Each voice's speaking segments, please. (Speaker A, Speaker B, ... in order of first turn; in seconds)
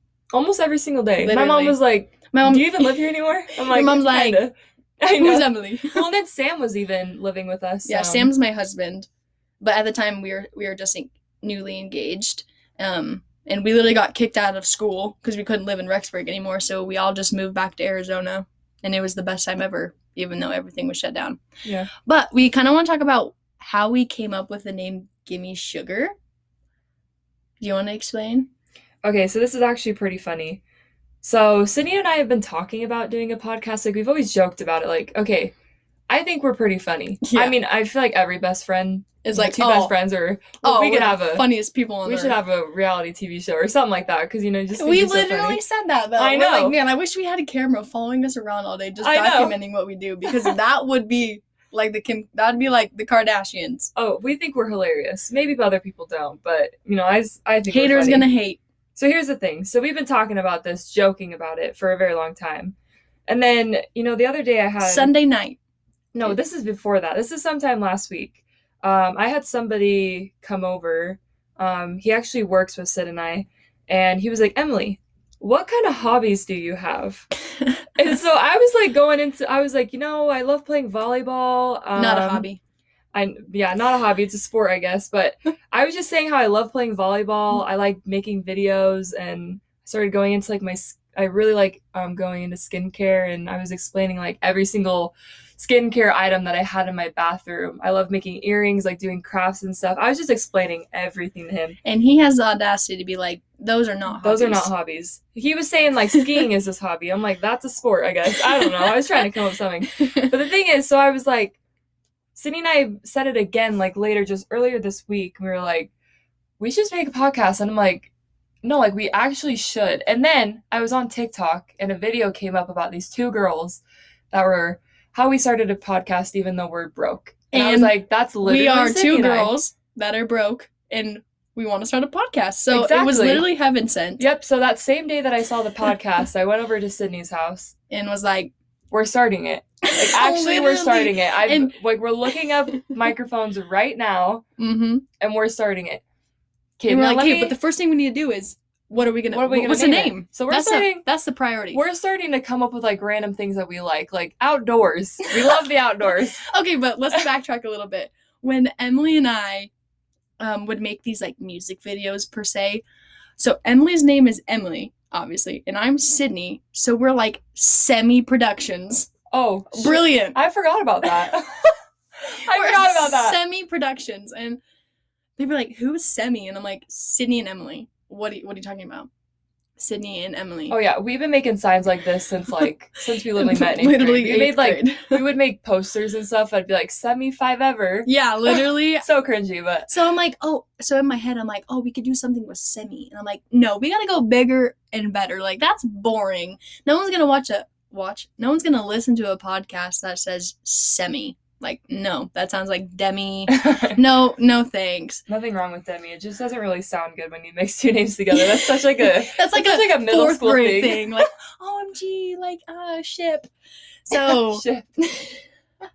Speaker A: 0.3-8.3, 21.6-21.9, 29.0-30.6, 31.2-35.5, 36.1-41.5, 42.0-45.6, 46.2-46.8, 49.0-49.6, 50.2-50.5, 54.0-58.3, 59.0-62.7, 63.3-65.1, 66.1-77.3, 77.9-82.5, 83.1-101.8, 104.2-111.6, 112.3-115.9, 116.6-118.1, 118.6-129.5, 132.7-133.5, 134.2-137.7, 138.9-144.4, 145.2-146.0, 146.8-147.5, 149.3-151.0, 151.7-156.4, 169.3-171.7, 172.2-173.4, 180.7-189.9, 203.5-204.0, 205.3-211.2, 214.1-214.9
Speaker B: 1.2-1.8, 2.3-3.0, 3.5-4.4, 5.1-6.0, 7.8-9.1, 9.6-21.4, 22.0-26.1, 27.6-28.5, 37.2-37.5, 39.2-39.9, 40.6-42.4, 44.8-53.9, 57.7-58.6, 64.8-65.6, 82.0-82.6, 101.8-104.7, 108.7-108.9, 110.0-110.3, 127.5-134.2, 137.9-138.5, 139.8-141.7, 144.6-145.0, 146.9-151.8, 156.4-159.7, 160.4-162.8, 163.4-169.1, 169.7-170.4, 172.2-174.6, 175.4-179.1, 179.8-180.8, 183.3-185.2, 188.0-189.1, 189.9-205.2, 208.3-213.5, 214.1-215.4